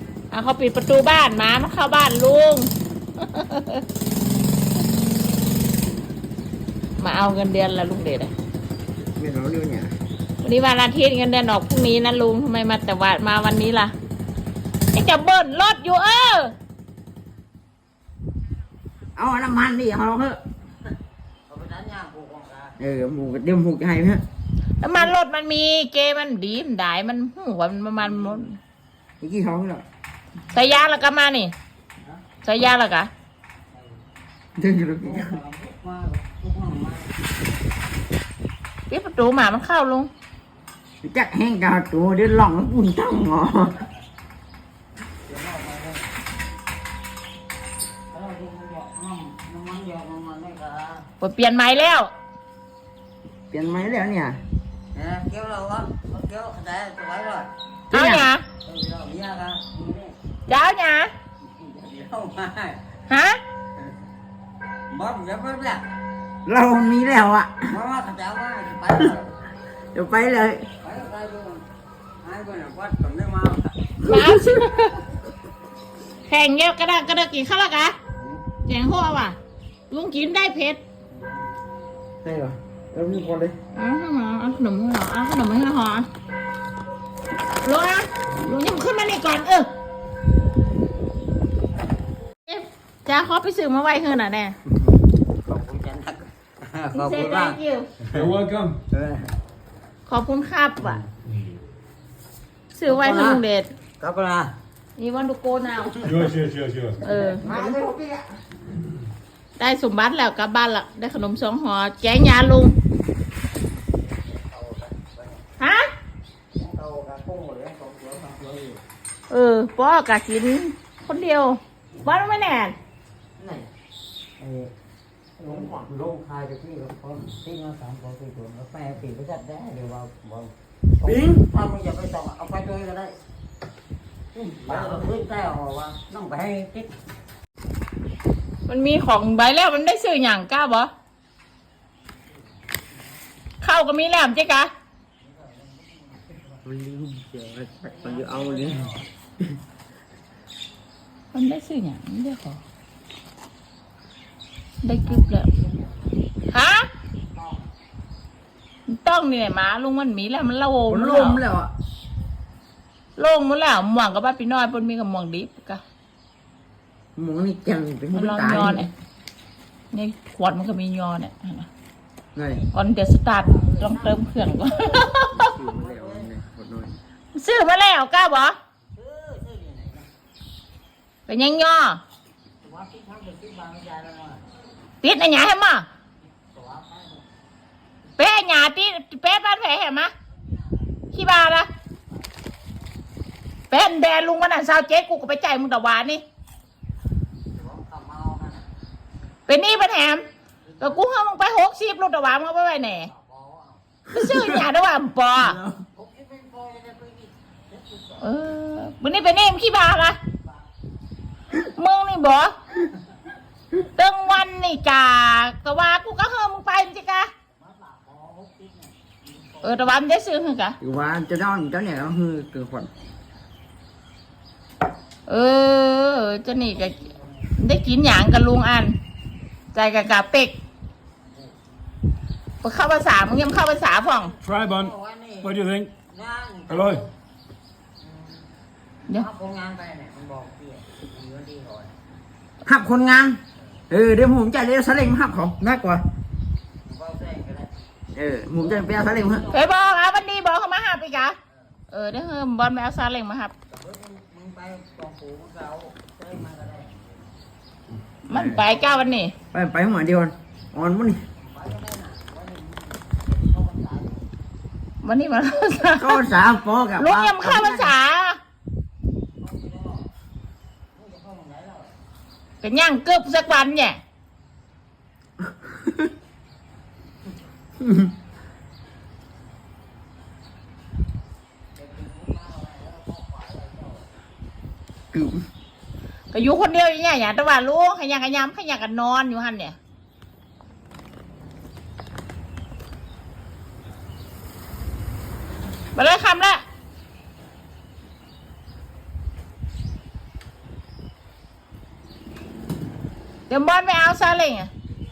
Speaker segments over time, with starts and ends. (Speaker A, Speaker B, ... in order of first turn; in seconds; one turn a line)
Speaker A: 0.3-3.8
Speaker A: 7.0-8.3
Speaker B: 9.1-9.9
Speaker A: 10.4-13.9
Speaker A: 14.9-16.5
Speaker B: 19.1-20.4
Speaker C: 21.5-22.8
Speaker B: 22.8-24.2
Speaker A: 24.8-28.6
Speaker C: 28.0-28.4
Speaker B: 29.2-29.8
Speaker A: 30.5-31.5
Speaker C: 30.6-30.8
Speaker A: 32.4-33.1
Speaker C: 33.7-34.0
Speaker B: 34.5-35.4
Speaker C: 35.0-37.4
Speaker A: 38.9-40.1
Speaker B: 41.0-43.9
Speaker C: 45.2-46.1
Speaker C: 48.1-51.1
Speaker A: 51.2-52.1
Speaker B: 53.5-54.4
Speaker C: 54.9-57.5
Speaker A: 57.9-58.4
Speaker B: 57.9-58.3
Speaker C: 58.6-60.1
Speaker A: 60.5-61.1
Speaker C: 61.4-62.9
Speaker A: 63.1-63.4
Speaker C: 64.9-65.9
Speaker B: 66.5-67.8
Speaker C: 67.7-69.3
Speaker B: 69.9-70.7
Speaker C: 70.8-71.6
Speaker C: 72.2-73.9
Speaker A: 74.0-75.0
Speaker B: 74.0-74.6
Speaker A: 76.3-78.0
Speaker C: 78.1-78.4
Speaker A: 78.7-79.3
Speaker A: 79.9-80.8
Speaker C: 81.1-81.4
Speaker B: 82.2-83.6
Speaker A: 83.7-86.1
Speaker A: 87.6-89.7
Speaker A: 92.5-94.5
Speaker C: 95.4-97.6
Speaker A: 96.9-97.9
Speaker D: 98.1-98.8
Speaker C: 98.9-99.3
Speaker A: 100.0-101.0
Speaker A: 102.7-103.7
Speaker C: 102.8-103.4
Speaker C: 104.0-104.5
Speaker A: 105.0-106.1
Speaker D: 106.0-107.0
Speaker A: 107.0-107.5
Speaker C: 107.1-107.8
Speaker B: 107.4-108.3
Speaker A: 109.6-112.7
Speaker C: 114.0-115.4
Speaker A: 115.6-115.9
Speaker C: 116.5-118.8
Speaker A: 119.3-122.7
Speaker C: 124.4-124.7
Speaker B: 125.4-125.9
Speaker C: 125.4-133.2
Speaker B: 131.0-131.4
Speaker C: 134.3-136.9
Speaker B: 134.6-135.2
Speaker A: 138.7-140.9
Speaker C: 142.3-143.2
Speaker A: 143.6-144.7
Speaker C: 145.2-146.6
Speaker B: 146.6-148.9
Speaker C: 147.8-149.1
Speaker A: 151.3-152.6
Speaker A: 154.8-155.5
Speaker C: 155.0-156.3
Speaker A: 156.5-156.9
Speaker C: 157.2-157.7
Speaker A: 158.9-161.4
Speaker B: 160.9-161.7
Speaker A: 163.2-165.8
Speaker B: 167.2-168.9
Speaker A: 168.1-168.9
Speaker A: 169.9-171.7
Speaker B: 172.3-172.7
Speaker A: 172.7-175.5
Speaker C: 173.3-174.3
Speaker B: 175.3-177.0
Speaker C: 175.4-176.3
Speaker A: 177.3-178.6
Speaker C: 178.8-180.1
Speaker A: 181.3-182.0
Speaker C: 182.6-184.4
Speaker A: 185.0-185.8
Speaker C: 186.3-187.2
Speaker A: 188.2-190.1
Speaker C: 190.3-191.1
Speaker A: 191.1-191.7
Speaker C: 192.1-192.6
Speaker A: 193.7-196.2
Speaker C: 197.5-198.7
Speaker A: 199.5-200.2
Speaker C: 200.7-201.0
Speaker A: 200.8-203.1
Speaker C: 202.9-203.8
Speaker A: 204.1-205.6
Speaker B: 204.1-204.7
Speaker B: 205.4-205.8
Speaker C: 205.9-208.5
Speaker A: 208.2-210.2
Speaker C: 210.4-210.7
Speaker A: 211.6-212.5
Speaker A: 213.7-217.3
Speaker C: 217.5-220.0
Speaker A: 219.6-220.8
Speaker B: 220.8-222.9
Speaker A: 225.3-227.0
Speaker C: 226.4-227.6
Speaker A: 227.6-228.9
Speaker A: 229.7-230.5
Speaker C: 231.3-231.5
Speaker A: 232.6-234.3
Speaker C: 233.9-237.1
Speaker D: 234.4-234.9
Speaker D: 235.4-235.9
Speaker C: 238.0-238.4
Speaker C: 239.1-241.9
Speaker B: 242.6-246.1
Speaker C: 243.6-243.8
Speaker C: 246.8-247.7
Speaker B: 248.1-249.5
Speaker C: 248.6-249.9
Speaker A: 249.5-251.3
Speaker A: 251.9-253.5
Speaker C: 253.7-257.3
Speaker A: 258.3-259.3
Speaker B: 258.3-258.6
Speaker C: 258.6-259.2
Speaker B: 259.5-261.2
Speaker C: 261.4-264.2
Speaker A: 265.0-266.2
Speaker B: 266.0-267.9
Speaker A: 267.0-268.4
Speaker C: 269.4-270.1
Speaker C: 270.9-271.9
Speaker A: 272.6-274.0
Speaker B: 275.5-276.1
Speaker B: 277.8-278.1
Speaker C: 281.7-284.1
Speaker B: 285.1-285.4
Speaker A: 286.3-289.8
Speaker A: 295.9-296.6
Speaker A: 303.5-304.7